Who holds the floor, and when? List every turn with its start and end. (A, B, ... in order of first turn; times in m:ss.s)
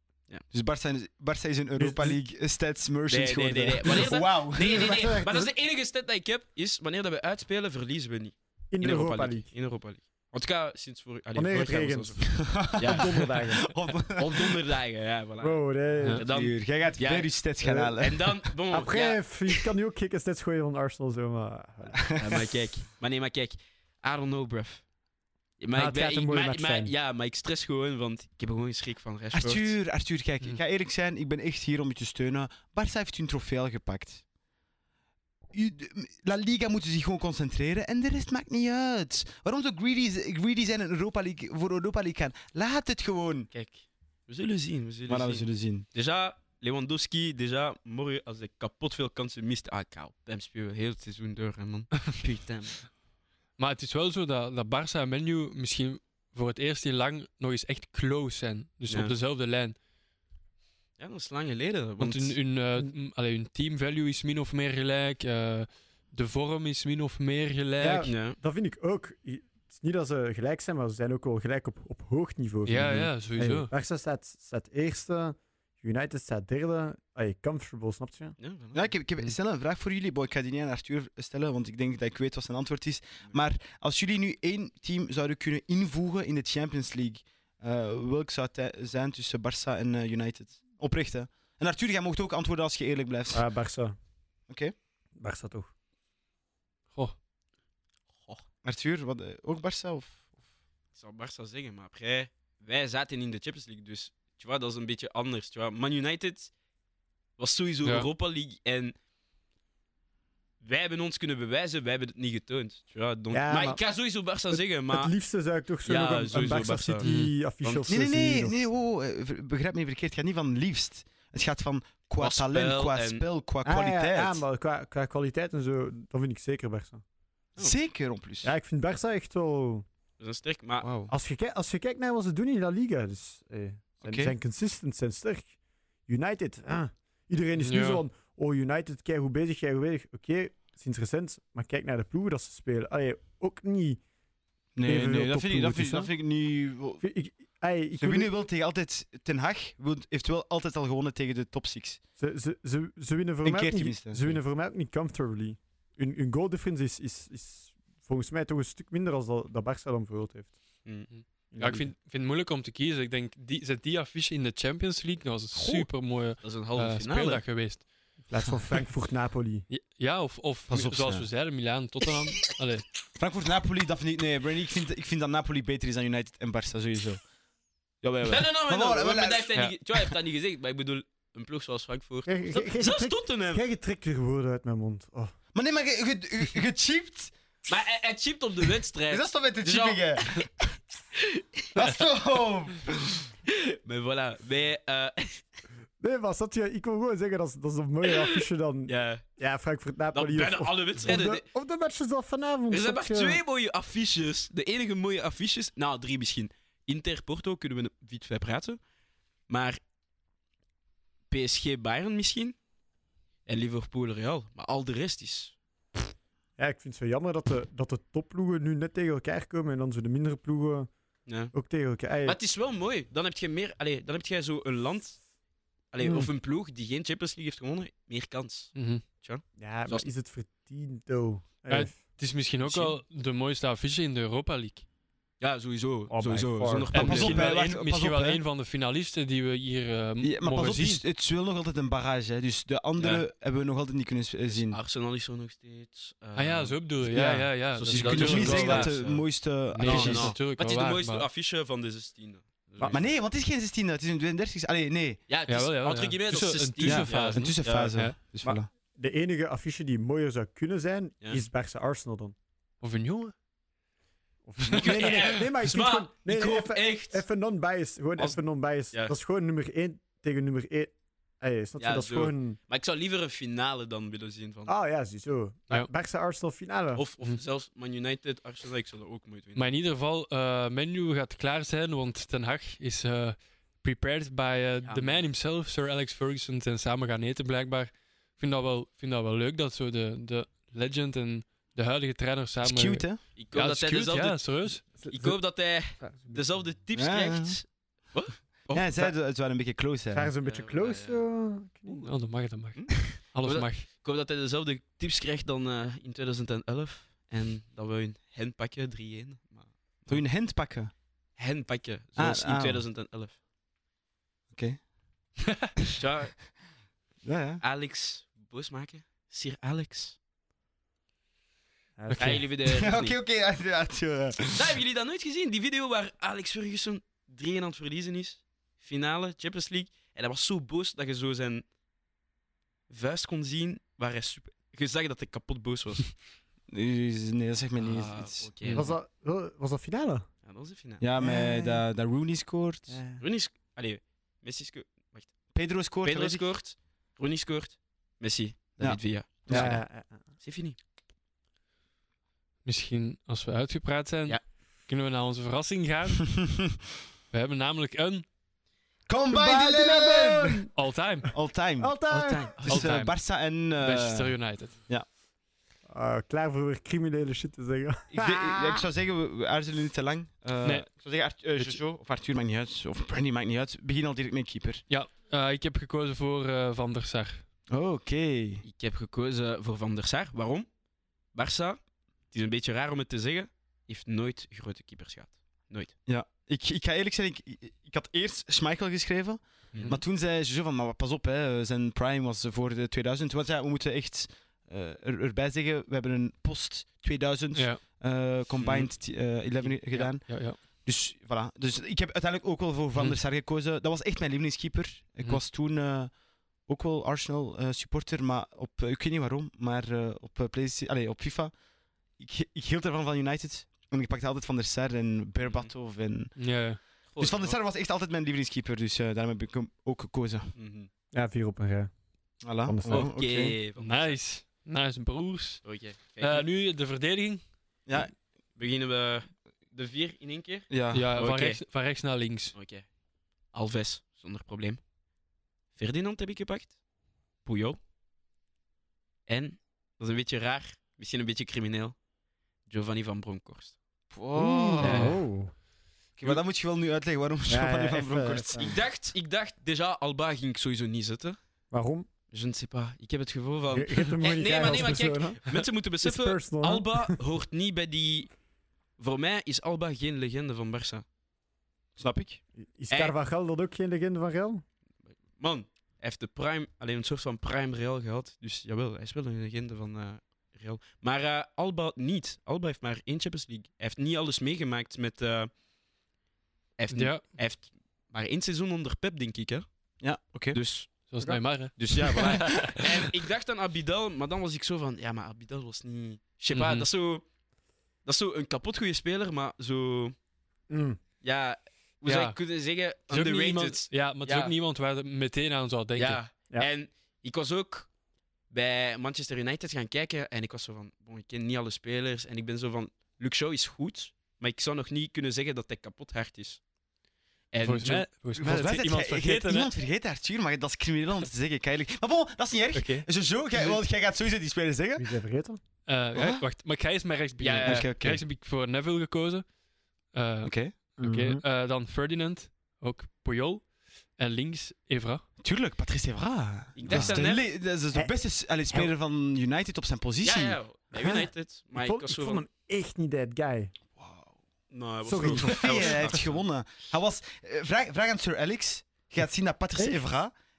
0:00.5-0:05.0 A
0:01.8-0:02.2 B
0:03.1-0:13.3 C
0:04.6-0:05.5 B
0:08.7-0:09.5 B
0:11.4-0:13.7 B
0:12.3-0:14.6 A
0:14.1-0:19.7 C
0:15.4-0:16.2 B
0:16.2-0:18.5 A
0:17.7-0:17.9 B
0:18.7-0:22.2 B
0:22.2-0:22.5 A
0:22.2-0:24.9 C
0:25.6-0:29.8 C
0:25.7-0:26.9 B
0:29.3-0:34.2 A
0:35.5-0:43.5 A
0:43.5-0:52.8 C
0:45.1-0:45.9 A
0:53.6-0:59.8 D
0:58.9-0:59.1 C
1:01.0-1:02.4 C
1:02.0-1:08.1 D
1:07.8-1:18.4 B
1:08.0-1:08.4 C
1:12.7-1:13.7 D
1:18.4-1:18.9 C
1:18.7-1:33.4 A
1:33.3-1:34.0 B
1:34.5-1:34.7 A
1:35.2-1:35.7 B
1:38.6-1:40.2 A
1:40.9-1:46.5 C
1:47.4-1:49.0 C
1:50.6-1:55.1 C
1:53.3-1:53.8 B
1:54.5-1:58.6 B
1:55.8-1:57.1 C
1:57.0-1:57.3 D
1:57.6-1:57.9 C
1:57.9-2:04.4 A
2:02.2-2:03.2 C
2:03.6-2:07.0 B
2:07.6-2:08.5 A
2:08.4-2:09.8 B
2:10.2-2:10.9 C
2:10.8-2:11.1 A
2:11.1-2:15.5 B
2:14.0-2:14.3 A
2:16.1-2:24.0 B
2:17.6-2:18.0 D
2:24.8-2:27.0 A
2:24.8-2:26.1 B
2:27.0-2:28.3 B
2:28.0-2:32.0 A
2:32.2-2:40.6 B
2:33.4-2:34.4 A
2:40.8-2:41.1 C
2:41.1-2:47.9 D
2:41.5-2:41.9 B
2:45.6-2:45.9 C
2:46.4-2:47.4 C
2:48.3-2:49.7 B
2:49.7-2:52.8 D
2:50.7-2:51.3 A
2:53.2-2:57.2 A
2:58.0-2:59.5 A
2:58.2-3:03.6 C
3:02.3-3:05.3 B
3:05.5-3:07.3 A
3:07.7-3:10.5 C
3:09.1-3:10.5 A
3:11.2-3:11.6 C
3:11.8-3:13.2 A
3:13.5-3:15.4 C
3:16.0-3:23.4 B
3:18.0-3:19.2 C
3:20.1-3:21.4 C
3:22.7-3:28.8 C
3:29.5-3:29.8 C
3:31.3-3:32.6 C
3:33.5-3:35.6 C
3:36.6-3:40.9 B
3:41.3-3:41.5 C
3:41.5-3:42.4 B
3:42.2-3:45.2 C
3:45.9-3:50.1 C
3:46.0-3:46.3 B
3:48.8-3:49.0 D
3:49.6-3:52.0 B
3:51.7-3:54.8 D
3:52.6-3:53.0 C
3:55.4-3:57.6 C
3:56.1-3:57.0 B
3:56.9-4:01.0 D
3:56.9-3:58.4 A
4:00.2-4:04.8 A
4:03.0-4:03.2 C
4:04.5-4:06.9 C
4:06.4-4:09.0 D
4:07.0-4:10.4 A
4:07.8-4:09.3 C
4:09.7-4:11.3 D
4:09.8-4:13.1 C
4:12.8-4:15.2 A
4:15.3-4:18.0 C
4:15.5-4:18.2 D
4:16.8-4:18.7 A
4:18.4-4:22.4 B
4:22.8-4:23.3 D
4:24.5-4:32.6 B
4:24.7-4:27.2 C
4:31.8-4:34.7 C
4:34.7-4:37.0 B
4:37.0-4:39.6 C
4:39.6-4:54.8 D
4:44.8-4:45.2 C
4:52.6-4:53.2 A
4:53.4-4:59.1 C
4:55.0-4:55.4 B
4:56.0-4:56.5 B
4:57.0-4:57.6 A
4:58.7-5:00.3 A
5:00.1-5:02.1 B
5:00.4-5:01.2 C
5:02.0-5:03.9 D
5:02.8-5:10.2 C
5:10.1-5:10.9 A
5:11.4-5:13.4 C
5:12.2-5:12.8 A
5:14.5-5:14.9 A
5:16.0-5:16.4 C
5:17.2-5:17.6 A
5:17.6-5:20.2 C
5:22.0-5:22.4 B
5:22.1-5:22.4 D
5:22.2-5:23.2 C
5:22.6-5:24.7 A
5:24.6-5:31.6 C
5:32.9-5:36.2 C
5:36.7-5:38.5 A
5:37.8-5:38.9 C
5:38.6-5:38.9 D
5:38.7-5:40.3 B
5:40.4-5:41.0 C
5:41.0-5:43.0 A
5:41.2-5:41.8 B
5:42.9-5:43.2 B
5:43.2-5:45.3 C
5:45.5-5:46.4 A
5:46.0-5:49.8 C
5:48.8-5:49.7 A
5:49.5-5:50.2 B
5:50.4-5:50.8 C
5:52.6-5:56.3 D
5:57.3-5:58.3 D
5:59.1-6:00.7 A
5:59.3-6:00.7 B
6:00.8-6:01.3 D
6:01.3-6:02.0 A
6:01.8-6:02.6 B
6:02.1-6:03.0 C
6:02.5-6:04.4 A
6:02.7-6:03.2 D
6:03.8-6:04.8 D
6:05.9-6:08.8 B
6:08.1-6:14.8 A
6:14.9-6:17.4 D
6:17.7-6:18.6 A
6:18.6-6:20.7 C
6:21.3-6:21.8 C
6:22.3-6:26.0 C
6:26.1-6:51.5 A
6:29.7-6:30.0 C
6:37.5-6:37.8 D
6:38.6-6:38.9 C
6:39.6-6:40.6 D
6:52.2-6:56.4 A
6:55.4-6:55.7 C
6:56.4-6:56.8 D
6:57.1-6:57.6 C
6:57.2-7:00.5 A
7:00.6-7:00.9 C
7:01.1-7:01.9 B
7:02.4-7:03.6 A
7:02.6-7:03.1 B
7:02.9-7:04.2 C
7:03.8-7:05.6 D
7:05.6-7:06.5 C
7:06.2-7:07.4 D
7:07.9-7:08.2 A
7:08.6-7:11.6 C
7:10.7-7:11.1 A
7:10.9-7:12.6 D
7:12.5-7:12.9 C
7:13.5-7:14.8 C
7:15.8-7:16.8 C
7:17.4-7:17.8 C
7:19.3-7:22.0 C
7:22.7-7:23.8 C
7:24.1-7:25.2 A
7:24.4-7:25.5 B
7:24.8-7:25.2 C
7:26.2-7:28.8 A
7:27.5-7:28.8 B
7:28.6-7:31.4 C
7:31.7-7:32.1 B
7:32.3-7:38.4 C
7:33.7-7:37.2 B
7:39.0-7:41.0 C
7:42.0-7:42.4 A
7:42.6-7:44.6 B
7:45.4-7:55.5 C
7:56.8-7:59.7 C
7:56.9-7:57.2 D
8:00.0-8:00.6 A
8:00.5-8:00.9 C
8:01.1-8:02.8 D
8:01.8-8:07.3 C
8:01.9-8:02.7 A
8:06.5-8:06.9 D
8:08.0-8:10.2 C
8:10.7-8:11.0 B
8:11.2-8:14.5 C
8:12.0-8:12.4 D
8:13.1-8:16.2 D
8:16.0-8:17.9 C
8:18.5-8:26.6 C
8:27.5-8:28.1 C
8:27.6-8:29.7 D
8:28.4-8:35.1 A
8:32.7-8:33.1 D
8:35.0-8:35.6 B
8:35.9-8:39.5 D
8:36.2-8:36.4 A
8:37.4-8:37.9 C
8:37.6-8:38.2 A
8:40.1-8:45.2 D
8:40.4-8:40.8 A
8:41.0-8:41.4 B
8:45.4-8:50.6 A
8:46.8-8:47.4 C
8:46.9-8:47.2 B
8:50.2-8:52.4 C
8:51.0-8:53.7 B
8:54.0-8:54.4 A
8:54.7-8:56.4 C
8:55.0-8:56.0 B
8:55.2-9:00.3 A
8:59.8-9:00.1 B